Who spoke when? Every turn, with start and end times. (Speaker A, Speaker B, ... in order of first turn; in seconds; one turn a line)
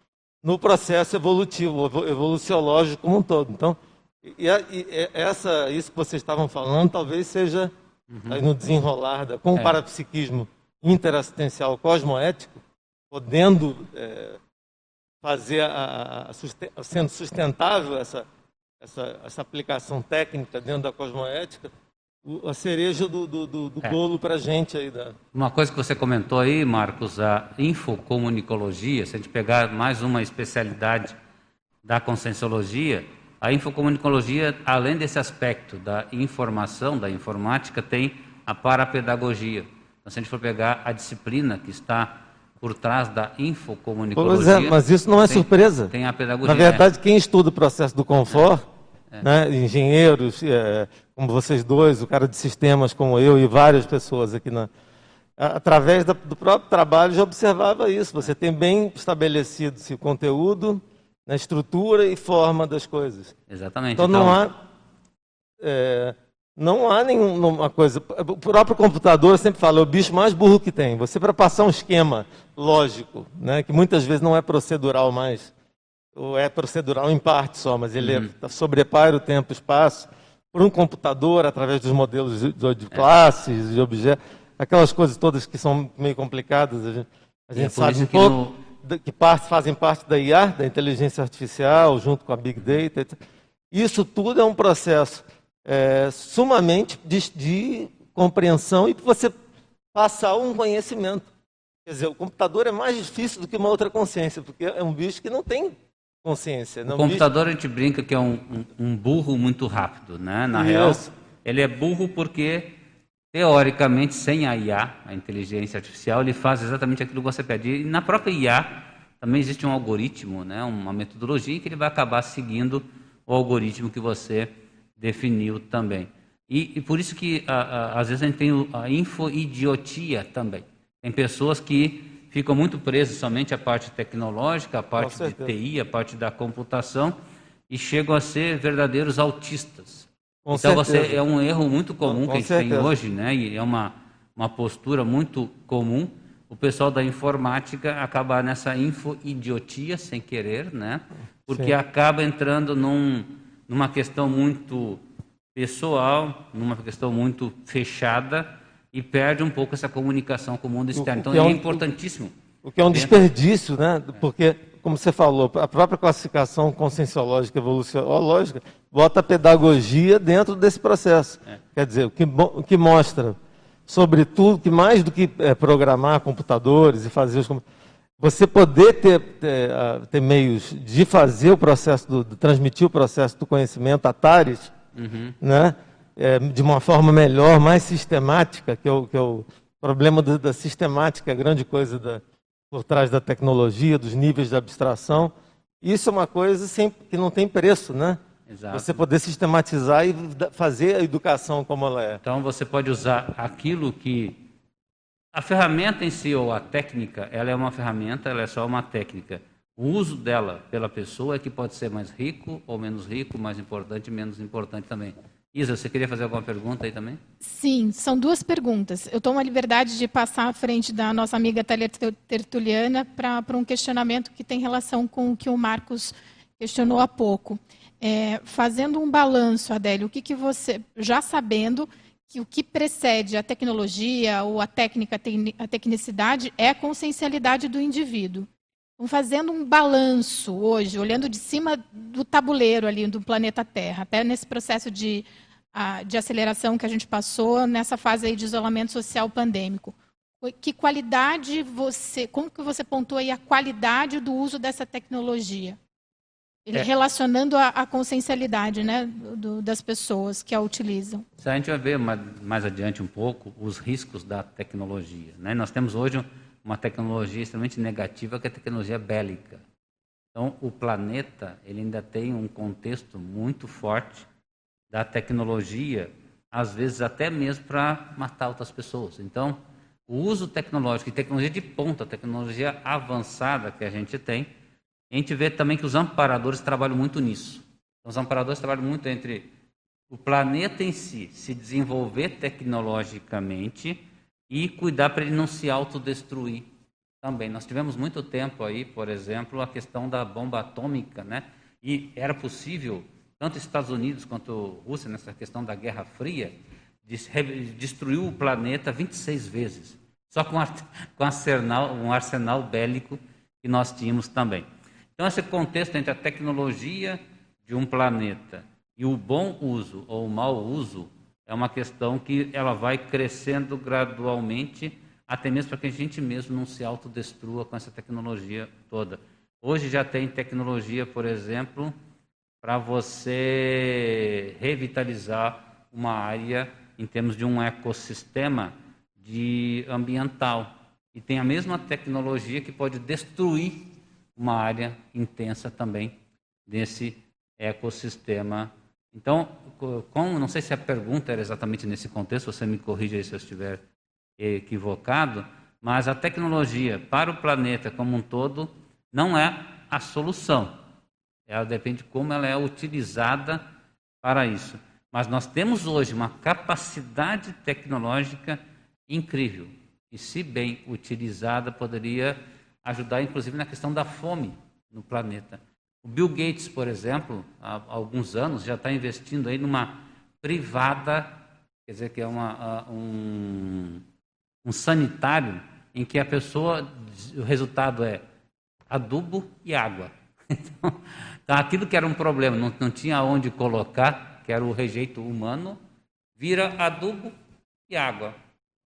Speaker A: 0.4-7.7
Speaker B: 8.1-8.4
Speaker A: 8.3-12.6
Speaker A: 13.1-14.4
Speaker A: 15.2-18.3
Speaker A: 18.8-21.7
Speaker A: 22.2-25.2
Speaker B: 25.3-31.1
Speaker B: 31.9-46.8
Speaker A: 44.2-45.9
Speaker A: 46.4-48.6
Speaker A: 49.2-54.7
Speaker A: 55.4-63.3
Speaker B: 63.5-64.4
Speaker A: 64.0-64.6
Speaker A: 65.6-75.5
Speaker A: 76.2-93.2
Speaker B: 78.0-78.3
Speaker B: 87.6-88.6
Speaker A: 93.7-99.3
Speaker A: 99.9-101.3
Speaker A: 101.9-107.2
Speaker B: 106.9-112.8
Speaker A: 110.5-111.1
Speaker B: 113.3-137.2
Speaker A: 135.0-135.5
Speaker B: 137.7-155.0
Speaker A: 140.4-141.2
Speaker A: 142.0-142.9
Speaker B: 155.6-162.3
Speaker A: 160.9-161.8
Speaker A: 162.6-173.4
Speaker B: 162.9-163.2
Speaker A: 173.9-177.6
Speaker A: 178.2-184.7
Speaker B: 185.0-185.4
Speaker A: 185.4-198.2
Speaker B: 198.5-199.0
Speaker A: 198.7-202.2
Speaker B: 202.2-204.4
Speaker B: 205.3-217.2
Speaker C: 217.4-238.5
Speaker C: 239.0-255.8
Speaker C: 256.7-261.2
Speaker B: 261.4-269.6
Speaker B: 270.3-274.3
Speaker B: 274.9-284.5
Speaker B: 285.1-289.5
Speaker B: 290.1-296.7
Speaker B: 297.2-314.7
Speaker B: 315.2-331.9
Speaker B: 332.6-346.2
Speaker B: 346.7-353.8
Speaker B: 354.4-360.8
Speaker B: 361.5-363.6
Speaker B: 364.2-384.0
Speaker B: 384.6-388.2
Speaker B: 388.9-395.8
Speaker B: 396.4-397.3
Speaker B: 397.9-398.4